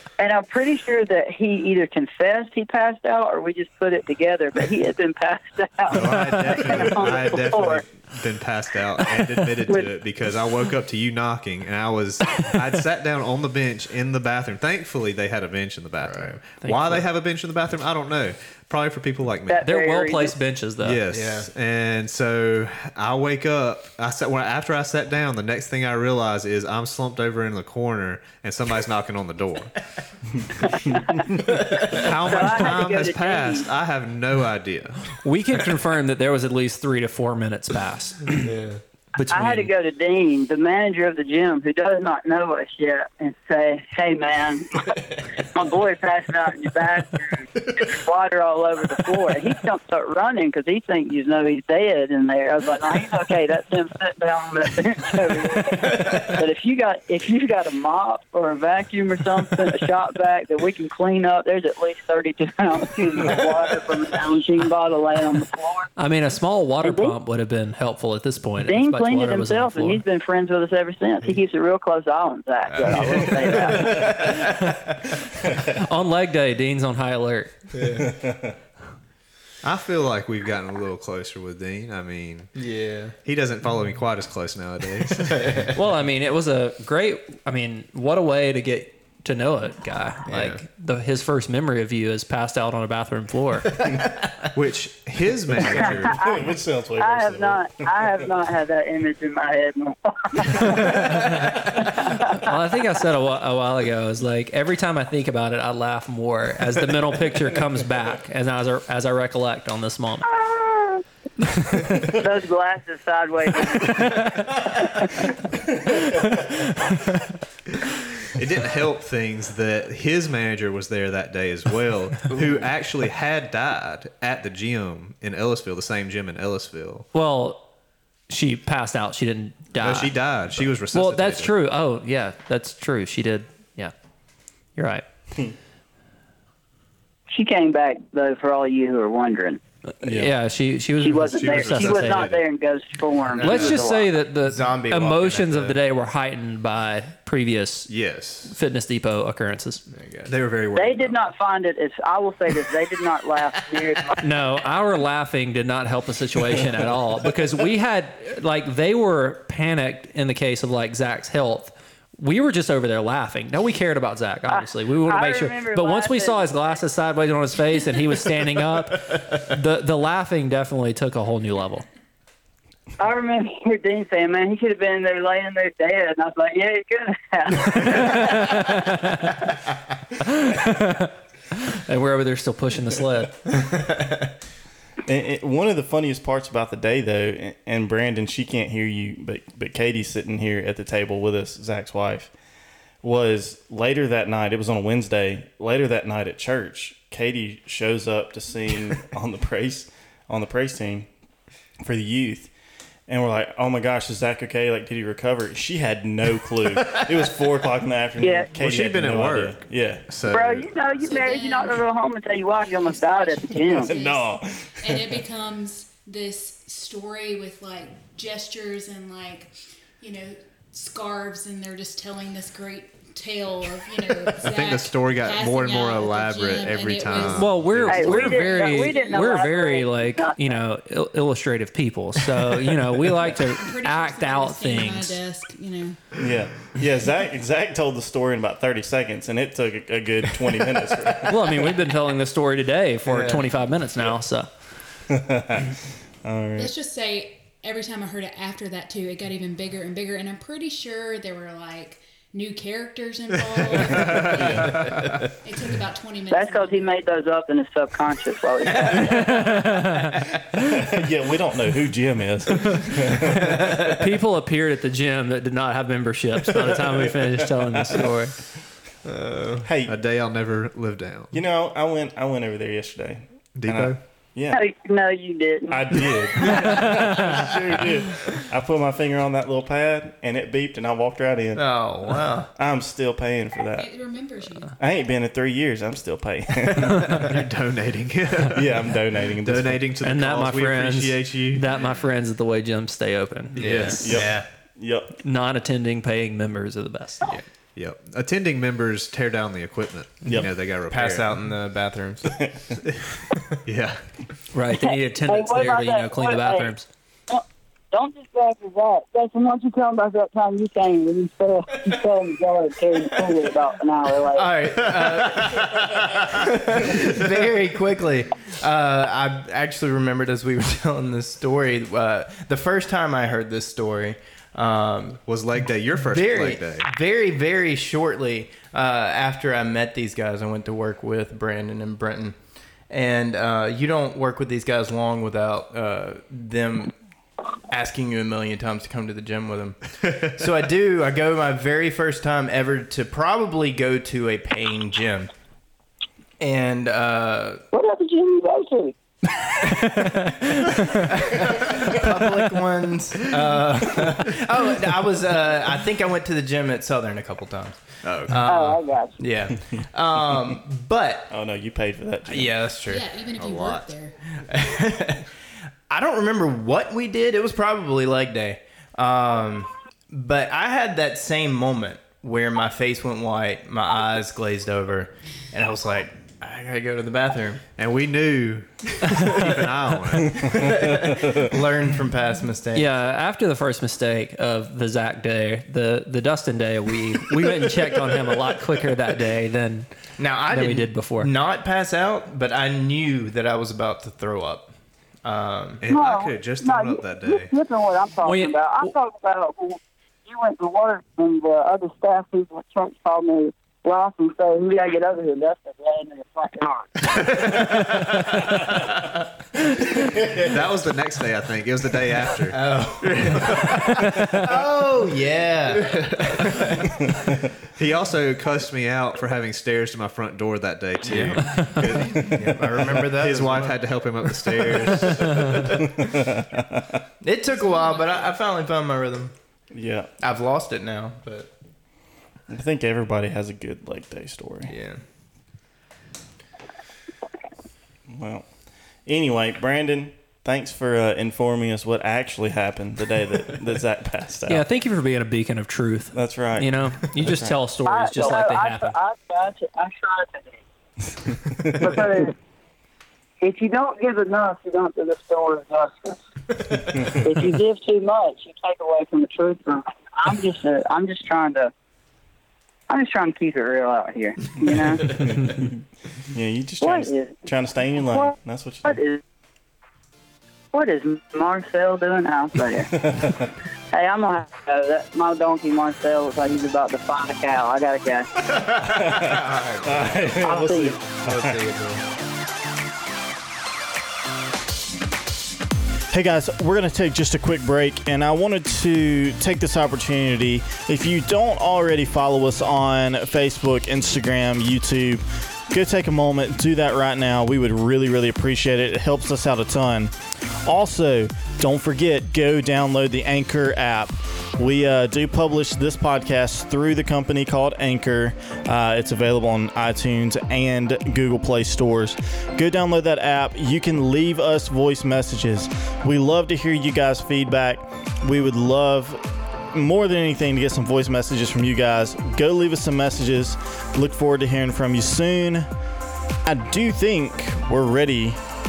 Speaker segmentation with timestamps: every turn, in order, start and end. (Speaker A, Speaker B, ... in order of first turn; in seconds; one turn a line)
Speaker A: 0.2-7.8
Speaker B: 5.9-19.6
Speaker C: 16.1-16.4
Speaker D: 16.6-17.0
Speaker A: 19.5-20.3
Speaker D: 19.6-21.0
Speaker B: 20.8-29.7
Speaker C: 21.1-21.5
Speaker A: 30.7-31.3
Speaker C: 31.7-31.9
Speaker B: 31.8-35.1
Speaker A: 31.9-33.7
Speaker D: 35.2-38.5
Speaker C: 38.3-38.8
Speaker D: 39.2-39.7
Speaker A: 39.3-65.9
Speaker D: 66.0-70.0
Speaker A: 66.8-67.2
Speaker A: 68.6-74.3
Speaker C: 72.7-74.5
Speaker D: 74.1-74.8
Speaker D: 75.5-77.6
Speaker C: 77.7-78.2
Speaker E: 78.0-78.5
Speaker B: 79.6-82.5
Speaker C: 82.6-83.2
Speaker B: 83.2-85.7
Speaker C: 85.2-85.7
Speaker D: 85.7-93.8
Speaker C: 90.3-90.6
Speaker B: 94.5-96.3
Speaker E: 95.6-98.2
Speaker A: 95.8-101.2
Speaker D: 100.8-110.3
Speaker A: 101.9-102.5
Speaker A: 110.3-111.0
Speaker A: 112.0-114.3
Speaker A: 114.8-115.3
Speaker D: 115.9-117.2
Speaker B: 118.3-127.1
Speaker D: 127.1-127.7
Speaker D: 128.3-130.2
Speaker B: 129.8-131.5
Speaker D: 130.9-133.9
Speaker D: 134.8-135.1
Speaker A: 137.3-139.6
Speaker D: 140.0-142.3
Speaker A: 141.0-144.1
Speaker B: 141.3-142.4
Speaker C: 143.4-143.8
Speaker D: 143.4-147.9
Speaker C: 144.4-145.8
Speaker B: 147.9-148.5
Speaker D: 148.4-149.8
Speaker C: 149.9-150.3
Speaker B: 150.3-151.2
Speaker A: 150.8-154.3
Speaker D: 154.2-171.9
Speaker A: 164.5-166.8
Speaker A: 173.0-178.8
Speaker D: 178.1-179.4
Speaker D: 180.2-183.5
Speaker E: 185.1-192.3
Speaker E: 193.0-201.1
Speaker E: 201.8-202.5
Speaker E: 203.1-210.1
Speaker A: 208.2-208.6
Speaker B: 208.6-210.7
Speaker A: 210.3-213.9
Speaker F: 211.0-211.8
Speaker F: 212.6-227.7
Speaker E: 213.7-215.1
Speaker B: 224.3-228.5
Speaker D: 227.2-235.2
Speaker A: 227.9-230.6
Speaker F: 228.7-229.3
Speaker F: 233.4-236.0
Speaker E: 236.2-241.7
Speaker D: 241.2-244.5
Speaker C: 243.1-243.4
Speaker E: 245.1-246.7
Speaker F: 246.6-254.9
Speaker F: 255.4-256.9
Speaker A: 256.3-259.5
Speaker D: 259.0-260.2
Speaker E: 260.6-263.5
Speaker C: 263.4-263.8
Speaker D: 263.5-268.4
Speaker C: 269.1-269.7
Speaker E: 269.6-270.0
Speaker B: 269.9-271.3
Speaker E: 271.3-274.6
Speaker B: 273.6-274.0
Speaker A: 274.5-276.7
Speaker E: 275.7-281.7
Speaker D: 276.8-277.3
Speaker C: 281.6-282.5
Speaker E: 282.6-283.9
Speaker F: 283.7-284.8
Speaker E: 284.8-287.2
Speaker B: 287.0-291.6
Speaker E: 288.5-289.8
Speaker D: 290.0-294.2
Speaker C: 293.6-294.5
Speaker E: 294.0-295.2
Speaker D: 295.2-297.3
Speaker B: 297.8-301.3
Speaker C: 300.3-302.8
Speaker B: 303.6-304.0
Speaker D: 304.5-306.9
Speaker A: 304.8-306.7
Speaker A: 307.3-314.5
Speaker C: 314.3-325.2
Speaker B: 315.2-316.3
Speaker B: 325.3-326.9
Speaker C: 326.1-332.4
Speaker C: 332.9-336.9
Speaker C: 337.7-345.3
Speaker C: 346.4-347.6
Speaker A: 347.7-348.9
Speaker C: 349.6-361.3
Speaker B: 358.0-358.5
Speaker A: 358.5-359.1
Speaker E: 361.3-362.6
Speaker C: 362.3-363.1
Speaker F: 362.9-364.1
Speaker B: 363.4-363.9
Speaker C: 364.4-365.3
Speaker C: 365.9-377.6
Speaker B: 377.8-380.7
Speaker C: 380.2-382.9
Speaker D: 382.7-389.9
Speaker C: 390.2-394.7
Speaker D: 390.5-391.3
Speaker C: 395.2-395.8
Speaker B: 395.8-397.5
Speaker A: 395.9-407.2
Speaker D: 398.2-398.9
Speaker B: 407.2-408.9
Speaker C: 408.0-408.3
Speaker B: 410.0-414.5
Speaker C: 412.5-417.0
Speaker D: 414.1-414.4
Speaker B: 415.8-416.7
Speaker B: 417.8-425.9
Speaker C: 421.0-426.1
Speaker E: 425.6-427.0
Speaker C: 427.2-429.3
Speaker E: 429.7-430.1
Speaker C: 430.2-431.5
Speaker E: 432.5-434.7
Speaker C: 434.7-435.0
Speaker E: 438.1-438.5
Speaker E: 439.1-444.6
Speaker D: 444.5-448.9
Speaker E: 446.1-447.6
Speaker A: 447.9-450.6
Speaker E: 451.5-451.8
Speaker A: 451.7-452.4
Speaker A: 453.4-461.7
Speaker A: 462.9-465.3
Speaker E: 465.1-465.7
Speaker E: 466.3-469.0
Speaker A: 466.8-467.4
Speaker A: 468.9-469.2
Speaker A: 470.7-473.0
Speaker E: 473.0-473.5
Speaker A: 473.9-478.5
Speaker C: 478.8-480.2
Speaker E: 478.8-481.6
Speaker A: 480.3-481.0
Speaker C: 481.2-482.0
Speaker E: 486.1-525.7
Speaker E: 526.4-528.4